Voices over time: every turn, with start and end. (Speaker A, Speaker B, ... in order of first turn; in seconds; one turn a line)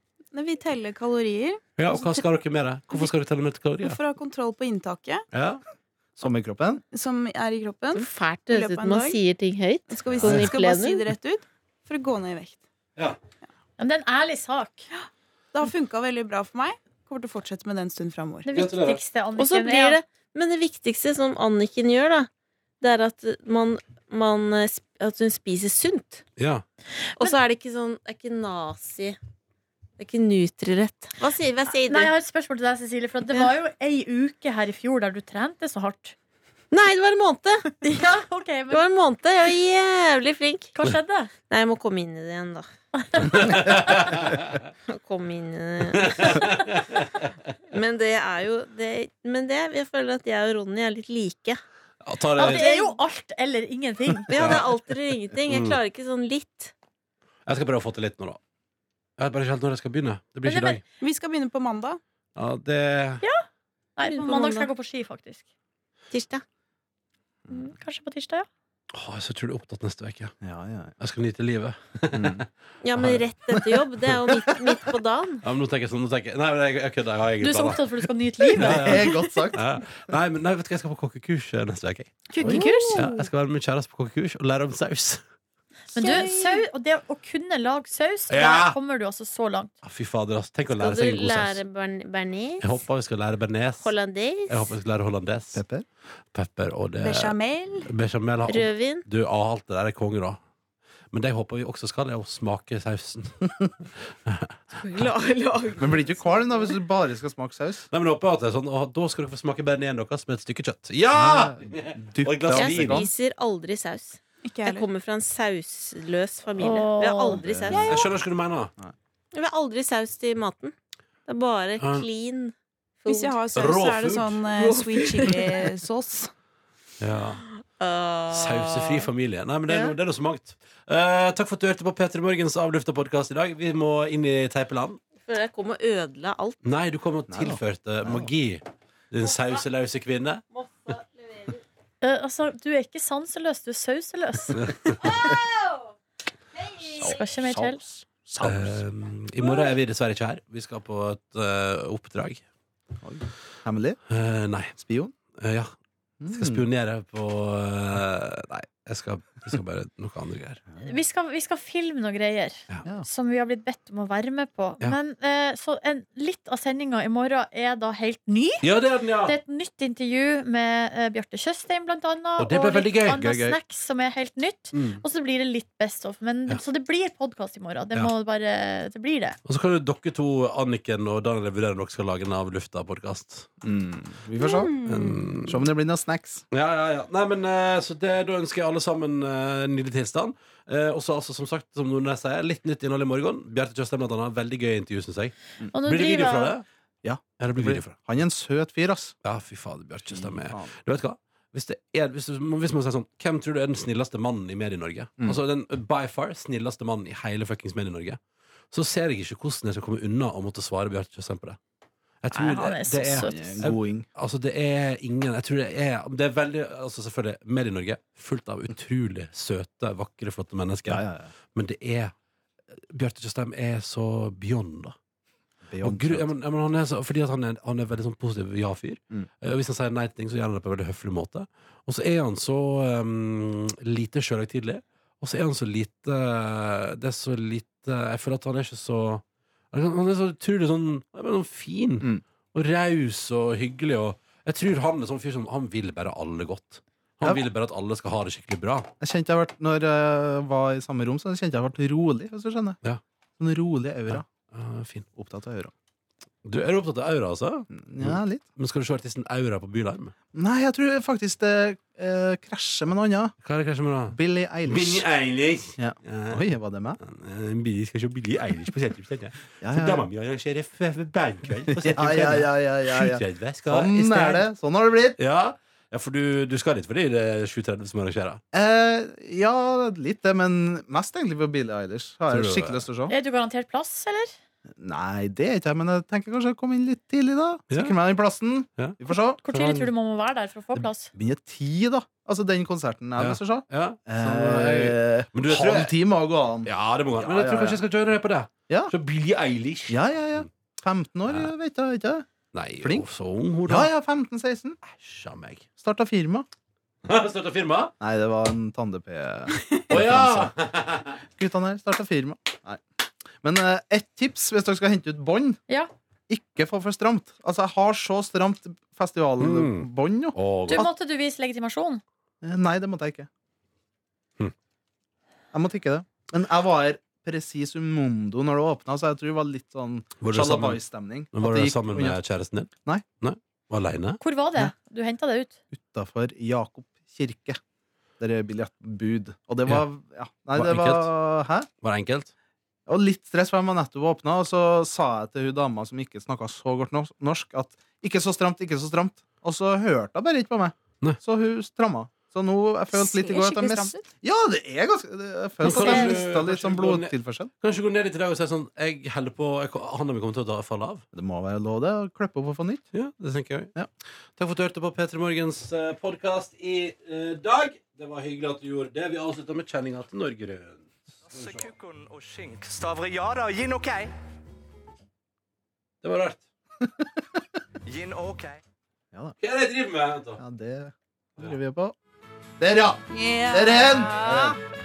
Speaker A: 0.3-2.2
Speaker B: 1.8-4.0
Speaker A: 3.8-5.2
Speaker B: 5.3-5.6
Speaker C: 6.2-6.8
Speaker A: 6.9-9.2
Speaker D: 7.9-11.1
Speaker A: 9.9-12.6
Speaker C: 10.2-10.5
Speaker E: 13.8-14.8
Speaker A: 15.5-18.5
Speaker E: 18.4-20.0
Speaker B: 18.5-19.0
Speaker D: 19.4-22.3
Speaker D: 22.8-26.2
Speaker B: 26.4-26.6
Speaker D: 27.2-29.2
Speaker D: 30.0-32.1
Speaker E: 31.9-36.1
Speaker D: 36.7-37.8
Speaker E: 37.8-38.8
Speaker D: 38.7-40.7
Speaker E: 40.7-41.3
Speaker D: 41.4-44.0
Speaker E: 43.0-43.8
Speaker B: 43.3-44.6
Speaker D: 44.9-46.6
Speaker B: 45.9-47.3
Speaker D: 47.7-51.6
Speaker B: 52.0-52.6
Speaker E: 52.4-54.4
Speaker D: 52.4-53.0
Speaker D: 54.3-56.7
Speaker B: 54.3-54.7
Speaker B: 55.5-55.8
Speaker B: 57.5-58.4
Speaker B: 59.2-60.8
Speaker E: 60.4-60.8
Speaker A: 61.0-62.0
Speaker B: 62.4-63.2
Speaker E: 64.0-65.5
Speaker D: 64.0-64.7
Speaker D: 66.1-66.4
Speaker E: 67.5-68.5
Speaker B: 68.9-70.3
Speaker C: 70.4-70.9
Speaker B: 71.0-72.4
Speaker C: 72.1-72.5
Speaker D: 72.8-75.4
Speaker B: 73.0-73.2
Speaker C: 73.5-73.8
Speaker B: 75.4-77.8
Speaker E: 77.4-79.2
Speaker B: 78.6-85.2
Speaker C: 78.6-79.6
Speaker A: 82.3-83.3
Speaker C: 82.4-82.7
Speaker E: 82.5-83.0
Speaker E: 85.9-89.7
Speaker A: 86.0-86.6
Speaker B: 88.3-88.8
Speaker B: 89.8-91.6
Speaker D: 90.7-92.8
Speaker B: 92.6-93.9
Speaker D: 93.8-94.7
Speaker B: 94.5-95.6
Speaker C: 95.5-95.8
Speaker B: 96.3-100.4
Speaker A: 97.0-97.9
Speaker D: 98.5-99.0
Speaker B: 101.1-104.6
Speaker D: 104.8-106.4
Speaker C: 105.8-107.9
Speaker B: 107.9-113.0
Speaker C: 111.1-113.1
Speaker D: 112.5-117.9
Speaker A: 114.4-114.8
Speaker E: 116.6-117.4
Speaker C: 117.4-118.1
Speaker A: 117.7-118.1
Speaker B: 117.9-118.7
Speaker D: 119.3-120.7
Speaker D: 121.2-123.4
Speaker B: 121.8-122.0
Speaker A: 123.1-126.3
Speaker B: 123.5-124.5
Speaker D: 124.5-125.7
Speaker B: 127.0-127.4
Speaker D: 127.8-129.1
Speaker B: 128.3-135.0
Speaker D: 129.7-129.9
Speaker D: 135.2-136.6
Speaker B: 136.6-140.4
Speaker C: 137.3-138.3
Speaker D: 139.2-139.6
Speaker D: 140.5-141.6
Speaker E: 142.0-144.7
Speaker B: 144.7-145.0
Speaker D: 145.0-145.9
Speaker D: 146.5-147.2
Speaker C: 146.9-148.8
Speaker E: 147.0-147.8
Speaker B: 148.4-152.4
Speaker C: 153.0-154.0
Speaker B: 154.1-154.8
Speaker C: 154.8-155.1
Speaker B: 155.3-155.7
Speaker C: 156.2-156.6
Speaker B: 156.3-160.6
Speaker E: 160.8-168.7
Speaker B: 168.6-169.4
Speaker E: 169.2-179.4
Speaker B: 172.4-173.6
Speaker B: 174.7-175.0
Speaker B: 179.4-183.5
Speaker C: 183.6-184.8
Speaker A: 184.4-185.3
Speaker B: 184.8-185.6
Speaker C: 185.4-186.4
Speaker B: 186.5-196.6
Speaker E: 195.7-196.6
Speaker C: 197.0-199.1
Speaker B: 197.4-197.9
Speaker B: 199.2-208.2
Speaker C: 200.1-200.7
Speaker B: 208.7-211.6
Speaker B: 212.2-222.1
Speaker E: 212.3-213.7
Speaker C: 213.2-214.1
Speaker C: 220.9-221.3
Speaker B: 222.8-224.9
Speaker C: 225.7-226.3
Speaker B: 225.8-248.9
Speaker C: 249.0-252.8
Speaker C: 253.4-254.2
Speaker B: 254.1-255.1
Speaker C: 255.1-255.7
Speaker B: 256.4-260.1
Speaker C: 257.7-258.4
Speaker C: 260.3-263.3
Speaker B: 263.4-266.5
Speaker C: 264.1-265.1
Speaker C: 265.8-267.0
Speaker B: 267.0-274.5
Speaker C: 269.6-270.1
Speaker C: 271.7-275.2
Speaker B: 275.2-278.4
Speaker C: 278.5-283.1
Speaker B: 282.3-282.8
Speaker E: 283.1-284.4
Speaker C: 284.7-289.4
Speaker B: 287.7-287.9
Speaker B: 288.8-289.9
Speaker E: 289.4-291.1
Speaker C: 290.7-297.8
Speaker B: 293.2-295.9
Speaker B: 296.6-300.4
Speaker C: 299.9-302.3
Speaker B: 301.3-301.5
Speaker B: 302.5-303.9
Speaker C: 303.7-304.8
Speaker B: 304.8-305.6
Speaker C: 305.8-306.5
Speaker B: 307.0-307.9
Speaker C: 308.0-310.6
Speaker B: 309.9-311.2
Speaker C: 311.2-312.8
Speaker C: 313.4-315.6
Speaker C: 316.3-320.9
Speaker B: 319.4-320.9
Speaker E: 320.7-322.0
Speaker C: 322.4-323.3
Speaker C: 325.5-332.2
Speaker B: 330.2-330.8
Speaker B: 331.3-334.2
Speaker E: 334.2-335.6
Speaker C: 335.7-337.6
Speaker C: 338.2-341.7
Speaker B: 340.5-341.1
Speaker B: 341.8-342.3
Speaker C: 342.9-357.5
Speaker A: 352.9-354.1
Speaker B: 355.6-361.0
Speaker A: 355.7-356.0
Speaker E: 355.8-356.0
Speaker C: 361.1-362.8
Speaker B: 362.9-363.7
Speaker B: 364.4-371.7
Speaker F: 371.3-374.1
Speaker B: 376.0-376.4
Speaker F: 377.9-378.6
Speaker B: 379.4-380.4
Speaker C: 380.4-381.9
Speaker C: 382.6-384.6
Speaker A: 383.1-384.6